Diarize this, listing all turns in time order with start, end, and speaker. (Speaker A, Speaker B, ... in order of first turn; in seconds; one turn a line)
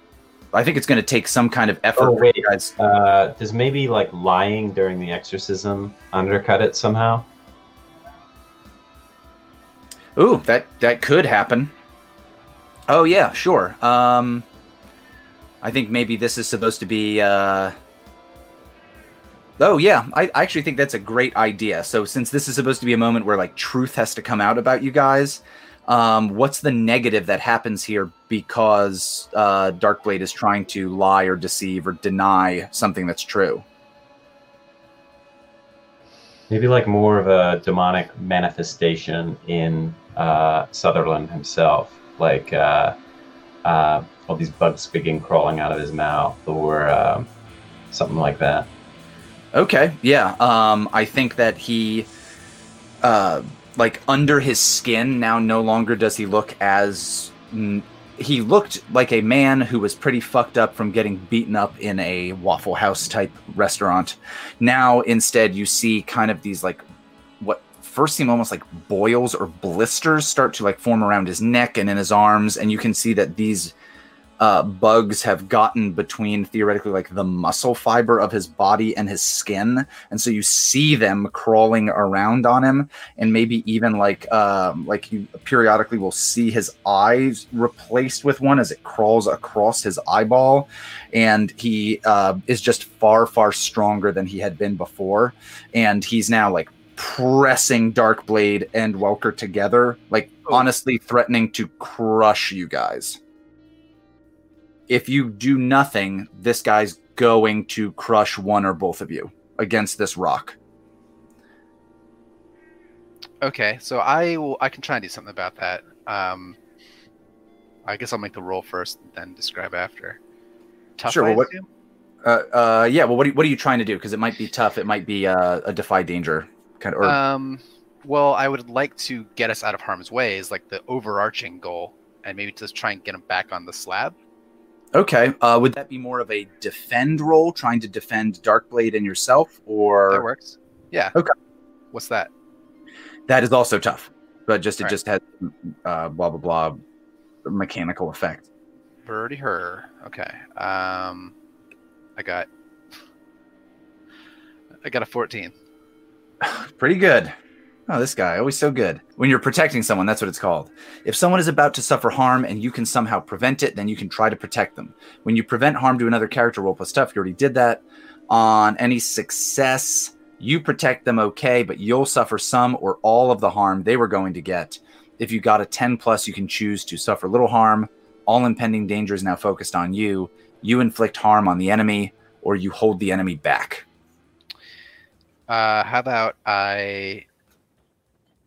Speaker A: 0.5-2.7
Speaker B: 1.9-7.2
Speaker A: 10.2-11.7
Speaker A: 12.9-14.4
Speaker A: 15.6-17.7
Speaker A: 19.6-33.6
Speaker B: 36.5-43.0
Speaker B: 43.6-47.3
Speaker B: 47.9-48.7
Speaker A: 49.5-52.1
Speaker A: 53.0-66.8
Speaker A: 67.4-73.7
Speaker A: 74.4-103.2
Speaker A: 104.9-110.6
Speaker C: 113.4-116.6
Speaker C: 117.8-120.2
Speaker C: 121.0-121.7
Speaker A: 121.1-121.5
Speaker A: 122.2-127.2
Speaker C: 127.0-134.1
Speaker A: 134.9-140.2
Speaker C: 140.1-141.2
Speaker C: 141.9-142.3
Speaker A: 143.3-146.8
Speaker A: 147.4-148.4
Speaker C: 149.1-151.3
Speaker C: 152.2-152.5
Speaker C: 154.8-155.5
Speaker A: 156.4-157.3
Speaker A: 157.9-183.8
Speaker C: 185.5-187.2